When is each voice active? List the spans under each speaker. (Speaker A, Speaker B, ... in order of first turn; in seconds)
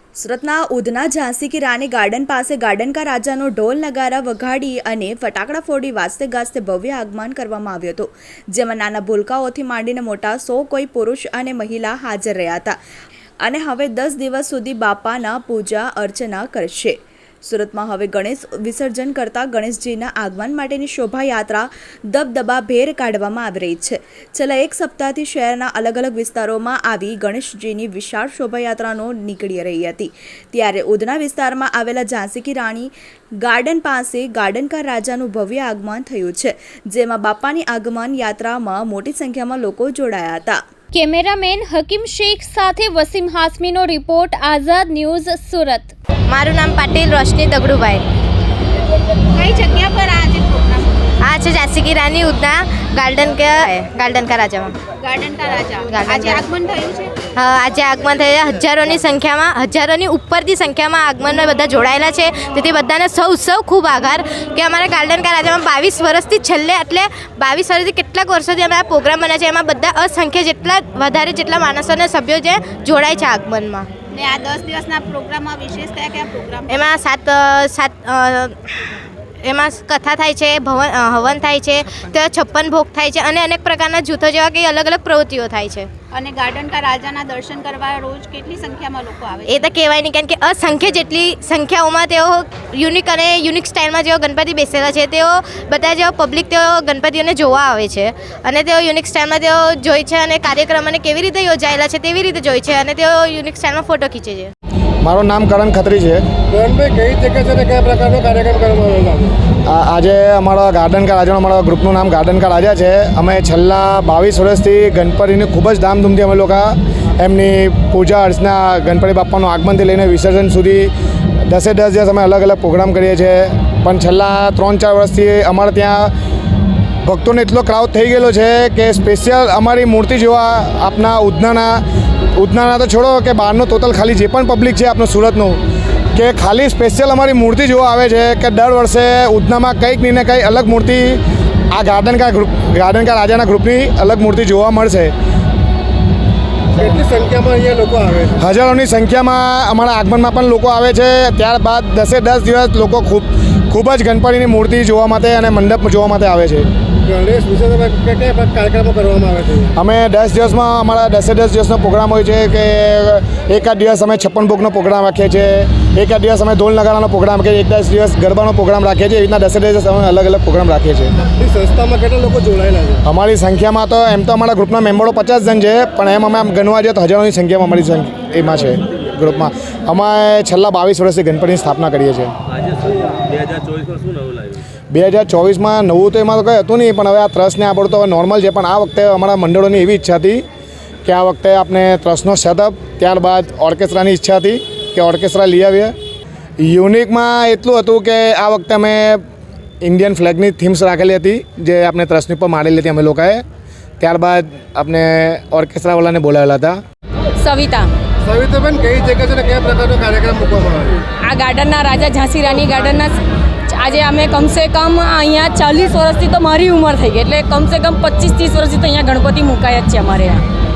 Speaker A: 0.2-12.8, 13.4-32.9, 33.4-40.6
Speaker B: 41.0-45.9
Speaker C: 46.3-48.0, 51.2-54.8, 55.9-56.4, 57.3-73.9, 76.7-78.8, 79.4-85.9, 89.5-104.5
Speaker D: 49.4-51.1, 55.0-57.2, 74.1-76.9, 86.1-89.7
Speaker E: 105.0-106.2, 109.7-120.9, 121.4-126.1, 127.0-131.8, 132.4-135.6, 136.2-141.2, 141.7-145.1, 148.4-156.7, 159.8-171.1, 173.1-182.3, 184.9-190.4, 191.1-195.9, 196.6-199.2, 199.8-203.4, 204.0-206.8
Speaker F: 106.5-109.4, 146.7-148.4, 157.1-159.7, 171.4-173.0, 208.2-211.0
Speaker G: 207.4-207.9, 211.2-220.4